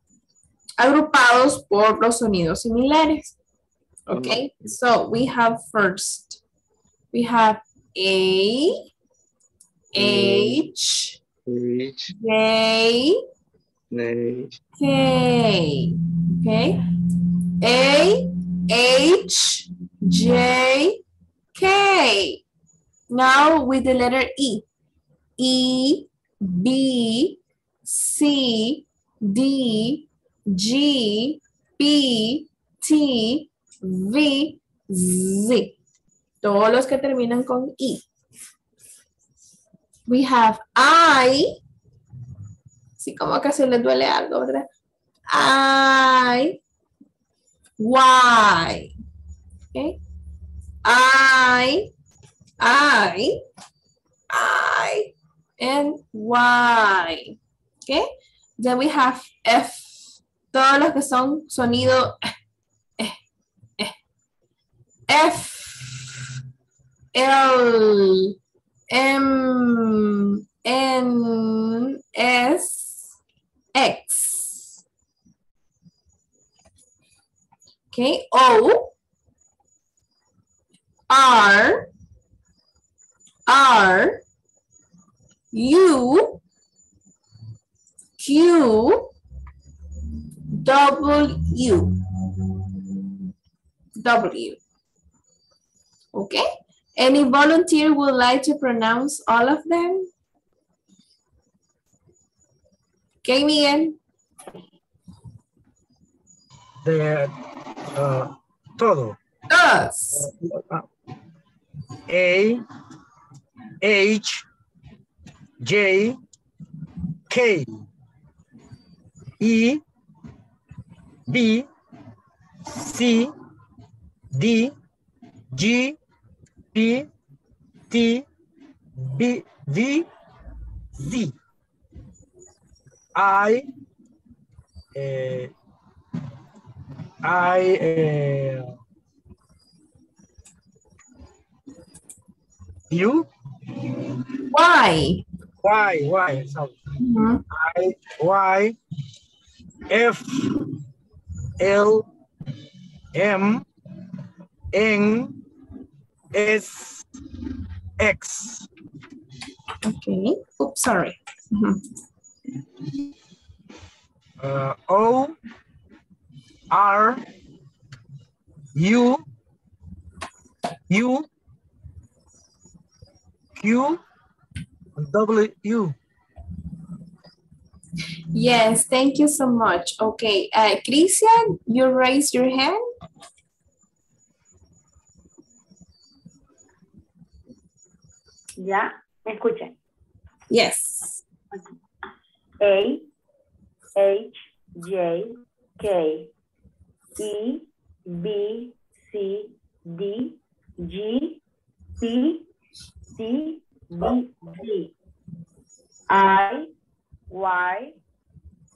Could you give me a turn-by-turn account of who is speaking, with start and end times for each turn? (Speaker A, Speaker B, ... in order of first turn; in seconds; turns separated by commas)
Speaker A: 0.8-3.4, Speaker A: 4.1-6.4, Speaker B: 4.1-4.8, Speaker A: 7.1-8.8, Speaker A: 9.9-11.2, Speaker B: 9.9-10.7, Speaker B: 11.5-12.1, Speaker A: 12.2-13.2, Speaker B: 13.9-14.6, Speaker A: 14.8-16.8, Speaker A: 17.6-21.0, Speaker A: 21.6-22.4, Speaker A: 23.1-24.6, Speaker A: 25.4-35.8, Speaker A: 36.4-38.1, Speaker A: 40.1-41.5, Speaker A: 43.0-44.7, Speaker A: 45.3-46.6, Speaker A: 47.8-48.9, Speaker A: 50.9-51.9, Speaker A: 52.6-53.4, Speaker A: 54.3-57.4, Speaker A: 58.6-62.2, Speaker A: 65.1-66.2, Speaker A: 67.2-68.3, Speaker A: 68.9-73.1, Speaker A: 73.8-74.8, Speaker A: 77.9-78.9, Speaker A: 81.1-81.9, Speaker A: 83.5-84.2, Speaker A: 85.5-86.4, Speaker A: 88.2-89.1, Speaker A: 90.5-91.9, Speaker A: 94.0-94.6, Speaker A: 96.1-96.5, Speaker A: 97.0-100.1, Speaker A: 103.2-104.0, Speaker C: 106.8-107.3, Speaker C: 108.0-109.2, Speaker A: 109.5-110.3, Speaker C: 110.2-110.8, Speaker C: 112.1-112.6, Speaker C: 113.8-114.5, Speaker C: 115.6-116.2, Speaker C: 117.3-117.7, Speaker C: 119.4-119.8, Speaker C: 121.3-121.7, Speaker C: 122.8-123.3, Speaker C: 124.3-124.8, Speaker C: 125.5-126.0, Speaker C: 126.7-127.1, Speaker C: 127.9-128.2, Speaker C: 129.1-130.1, Speaker C: 131.0-131.3, Speaker C: 133.2-133.7, Speaker C: 134.9-135.5, Speaker C: 137.2-138.7, Speaker C: 142.9-143.3, Speaker A: 144.5-145.2, Speaker C: 145.6-146.8, Speaker A: 147.0-147.4, Speaker C: 147.5-148.8, Speaker C: 149.9-150.5, Speaker C: 151.6-152.1, Speaker C: 153.1-153.7, Speaker C: 154.7-155.4, Speaker C: 156.3-157.0, Speaker C: 158.0-158.7, Speaker A: 159.8-161.8, Speaker C: 164.4-165.4, Speaker C: 166.7-167.2, Speaker C: 168.8-169.2, Speaker C: 170.9-171.3, Speaker C: 173.6-174.0, Speaker C: 175.0-175.9, Speaker A: 178.3-182.8, Speaker D: 188.6-189.7, Speaker A: 190.5-191.2, Speaker D: 192.6-193.1, Speaker D: 194.0-196.3, Speaker D: 197.2-201.4, Speaker D: 202.0-202.5, Speaker D: 203.2-204.9, Speaker D: 206.1-206.7, Speaker D: 207.3-208.0